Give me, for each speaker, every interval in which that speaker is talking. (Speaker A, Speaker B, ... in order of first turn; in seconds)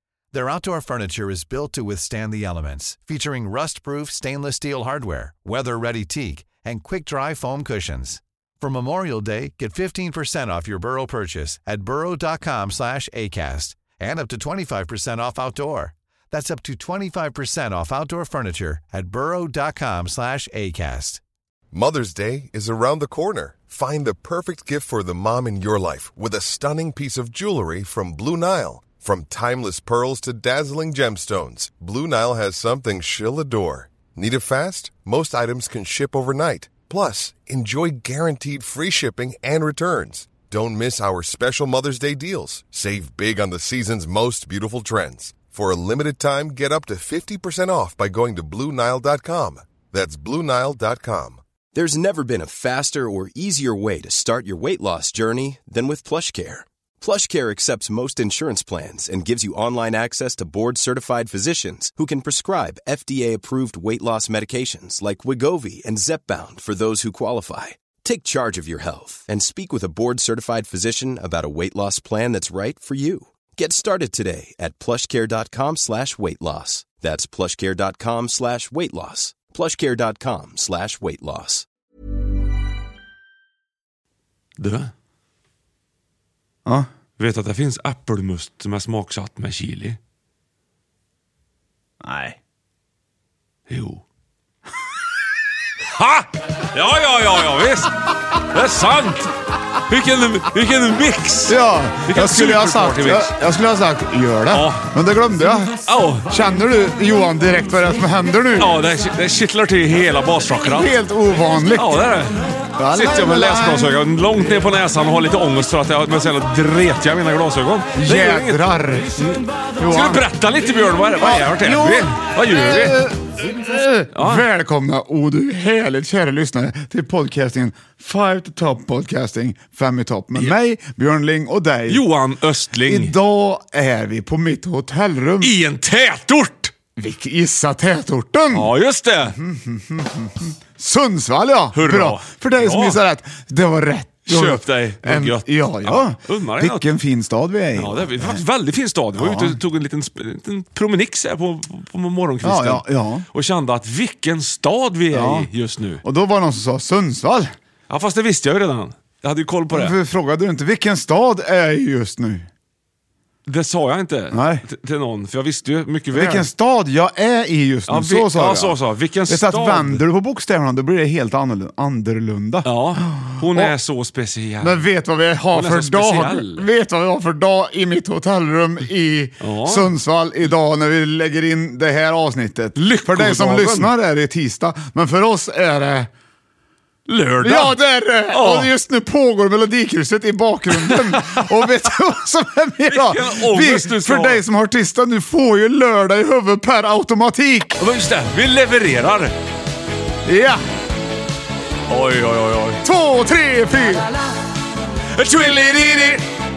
Speaker A: 0.3-21.2
Speaker B: 21.7-51.4
Speaker C: 51.7-81.7
Speaker D: 84.6-84.9, 87.2-90.0, 93.7-94.0, 96.0-99.3, 99.9-103.4, 104.5-104.9, 105.8-106.3, 108.5-111.0, 111.7-118.6, 119.2-123.0, 124.1-124.4, 131.9-133.1, 135.4-136.7, 138.5-139.4, 141.7-143.0, 144.3-146.9, 147.7-156.0, 157.9-160.0, 163.4-166.5, 167.9-170.0, 172.6-174.8, 175.5-176.7, 179.4-179.9, 182.8-183.9, 187.1-188.7, 190.8-191.7, 192.9-194.4, 197.8-199.3, 201.9-202.8, 205.1-206.2
Speaker E: 92.0-92.4, 101.5-108.8, 110.7-112.0, 112.8-114.8, 118.0-119.2, 119.8-120.2, 121.2-132.0, 132.8-135.5, 136.9-138.7, 139.3-148.4, 149.2-149.6, 152.4-153.2, 155.1-155.5, 156.0-157.5, 159.7-162.5, 164.3-164.6, 166.1-168.8, 169.3-173.7, 174.6-186.1, 187.4-197.8, 200.2-200.6, 202.8-204.1